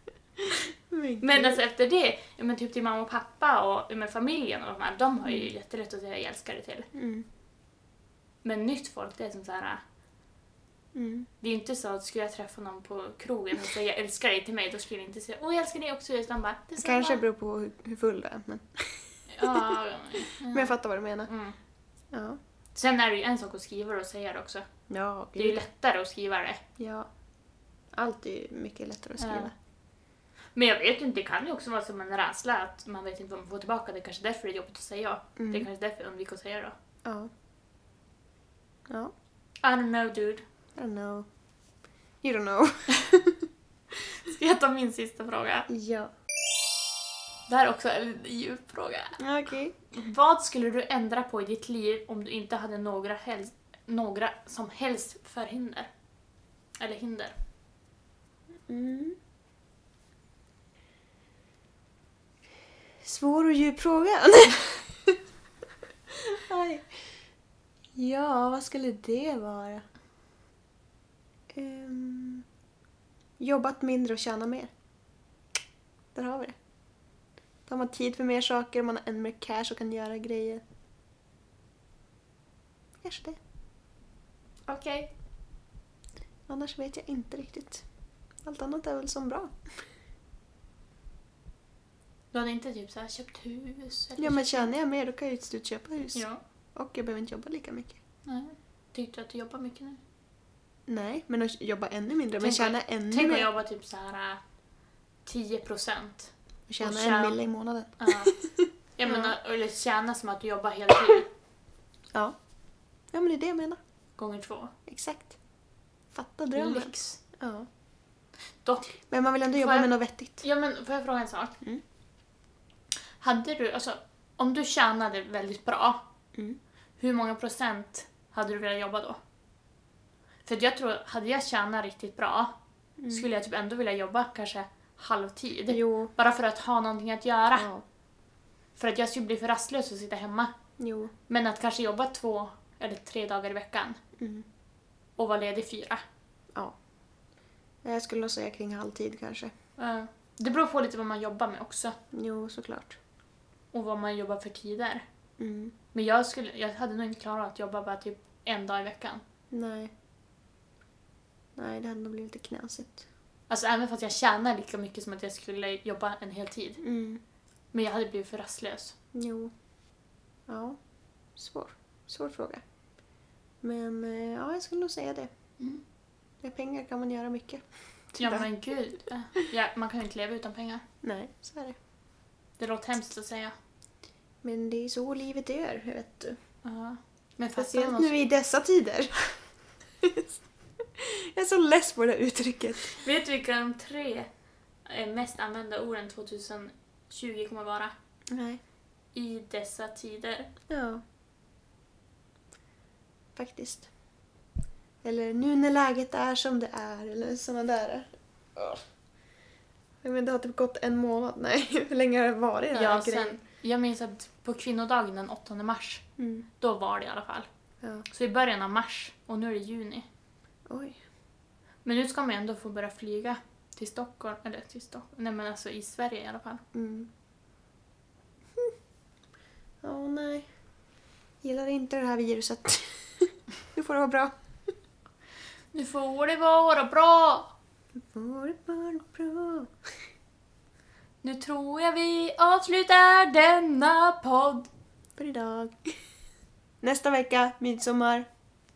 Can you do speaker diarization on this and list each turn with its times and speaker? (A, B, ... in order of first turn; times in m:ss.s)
0:00.9-0:01.6 A
0:01.2-0:06.9 B
0:07.0-0:07.3 A
0:08.4-0:09.8 B
0:11.0-0:11.3 A
0:11.4-0:17.2 B
0:16.8-0:19.8 A
0:19.3-0:20.8 B
0:20.5-0:21.3 A
0:21.3-0:21.6 B
0:22.1-0:22.4 A
0:22.8-0:24.7 B
0:24.9-0:25.6 A
0:25.4-0:26.6 B
0:26.8-0:27.1 A
0:27.9-0:29.5 A
0:29.2-0:29.5 B
0:30.6-0:36.8 B
0:35.4-0:35.7 A
0:37.0-0:37.3 A
0:39.6-0:40.4 B
0:40.8-0:41.3 A
0:42.2-0:43.5 A
0:43.9-0:45.7 B
0:45.7-0:46.1 A
0:47.5-0:49.2 B
0:49.2-0:49.8 A
0:49.9-0:55.9 B
0:56.8-0:57.4 B
0:58.7-0:59.2 A
1:03.0-1:05.2 A
1:06.1-1:06.9 A
1:08.0-1:09.8 A
1:11.5-1:12.5 A
1:13.4-1:14.7 A
1:16.1-1:16.6 A
1:17.7-1:20.6 A
1:23.0-1:23.4 A
1:24.7-1:25.1 B
1:26.5-1:27.8 A
1:28.4-1:29.8 A
1:32.3-1:34.7 B
1:34.2-1:36.2 A
1:36.1-1:36.4 B
1:36.8-1:38.0 A
1:38.3-1:40.0 B
1:40.9-1:43.5 A
1:42.4-1:44.4 B
1:45.3-1:47.4 B
1:46.7-1:49.3 A
1:48.0-1:48.4 B
1:49.0-1:51.3 B
1:53.1-1:53.8 A
1:54.2-1:54.7 B
1:54.9-1:55.4 A
1:56.1-1:57.7 A
1:56.6-1:57.2 B
1:58.6-1:59.0 B
1:59.1-2:00.4 A
1:59.5-2:01.6 B
2:03.2-2:06.0 B
2:06.3-2:06.6 A
2:07.0-2:09.2 B
2:10.5-2:12.5 B
2:13.0-2:13.2 A
2:13.1-2:17.7 B
2:15.7-2:16.1 A
2:17.5-2:17.8 A
2:18.8-2:20.6 B
2:20.8-2:21.1 A
2:21.3-2:24.0 B
2:24.2-2:24.5 A
2:25.2-2:26.0 B
2:27.8-2:29.5 A
2:29.8-2:32.0 B
2:32.1-2:33.0 A
2:33.7-2:35.0 B
2:35.4-2:35.7 A
2:35.9-2:39.2 B
2:39.5-2:39.9 A
2:41.6-2:43.0 A
2:43.5-2:46.8 B
2:46.8-2:47.2 A
2:47.7-2:49.0 B
2:49.1-2:49.5 A
2:50.5-2:50.8 A
2:51.4-2:52.6 A
2:53.6-2:55.3 A
2:56.4-2:58.5 A
2:58.2-3:00.8 B
3:01.0-3:01.8 A
3:02.6-3:03.5 B
3:04.4-3:06.4 A
3:06.6-3:08.2 B
3:07.6-3:09.2 A
3:10.0-3:10.4 A
3:11.0-3:13.0 A
3:13.0-3:14.3 B
3:14.9-3:17.9 B
3:18.3-3:18.6 A
3:19.1-3:20.5 B
3:20.7-3:21.0 A
3:23.4-3:23.9 A
3:25.0-3:28.8 A
3:30.0-3:33.4 A
3:32.7-3:36.0 B
3:36.2-3:36.5 A
3:36.6-3:37.5 B
3:38.1-3:40.1 B
3:40.7-3:41.0 A
3:41.8-3:46.6 B
3:46.7-3:47.1 A
3:49.8-3:50.5 A
3:51.4-3:54.3 A
3:55.7-3:57.5 B
3:58.0-3:59.7 A
4:01.2-4:04.7 B
4:05.2-4:05.9 A
4:06.8-4:08.3 A